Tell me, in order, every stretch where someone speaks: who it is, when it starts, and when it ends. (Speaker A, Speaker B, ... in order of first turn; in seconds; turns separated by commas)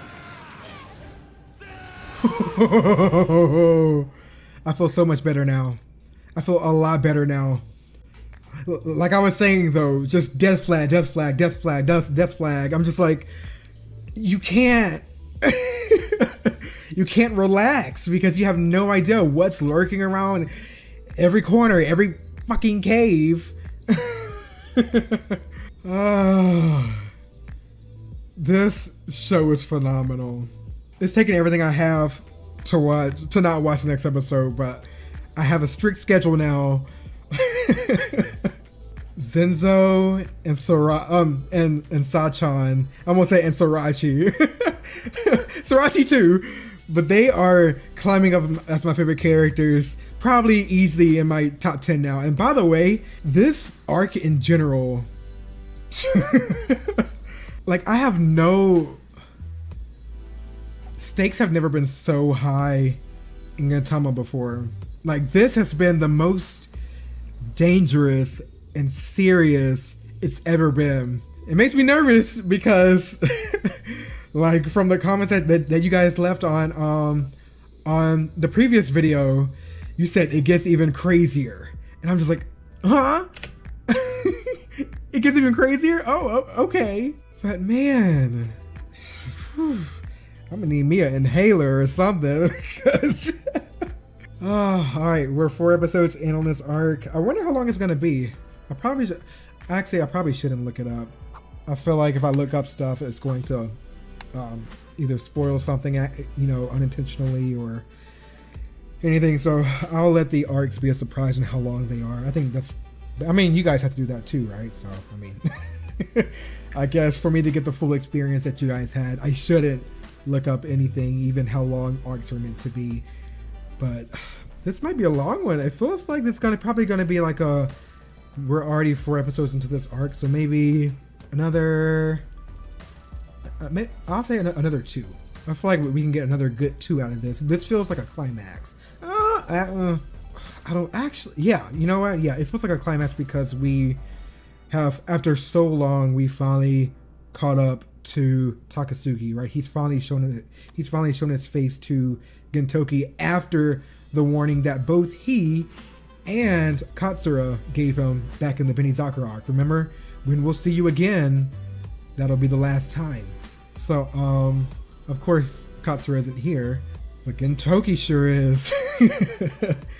Speaker A: 2.2-4.1, Speaker A: 4.6-5.8, Speaker A: 6.3-7.7, Speaker A: 8.6-13.3, Speaker A: 14.2-20.5, Speaker A: 21.1-27.1, Speaker A: 28.4-38.5, Speaker A: 39.1-55.1, Speaker A: 55.9-57.1, Speaker A: 57.6-59.0, Speaker A: 61.0-63.0, Speaker A: 63.6-66.7, Speaker A: 67.5-77.3, Speaker A: 77.8-83.3, Speaker A: 83.9-88.6, Speaker A: 89.1-93.6, Speaker A: 94.4-101.1, Speaker A: 101.7-103.8, Speaker A: 104.3-107.9, Speaker A: 109.0-123.0, Speaker A: 123.8-127.7, Speaker A: 128.3-132.2, Speaker A: 133.6-144.0, Speaker A: 144.7-155.7, Speaker A: 156.2-161.5, Speaker A: 162.2-169.8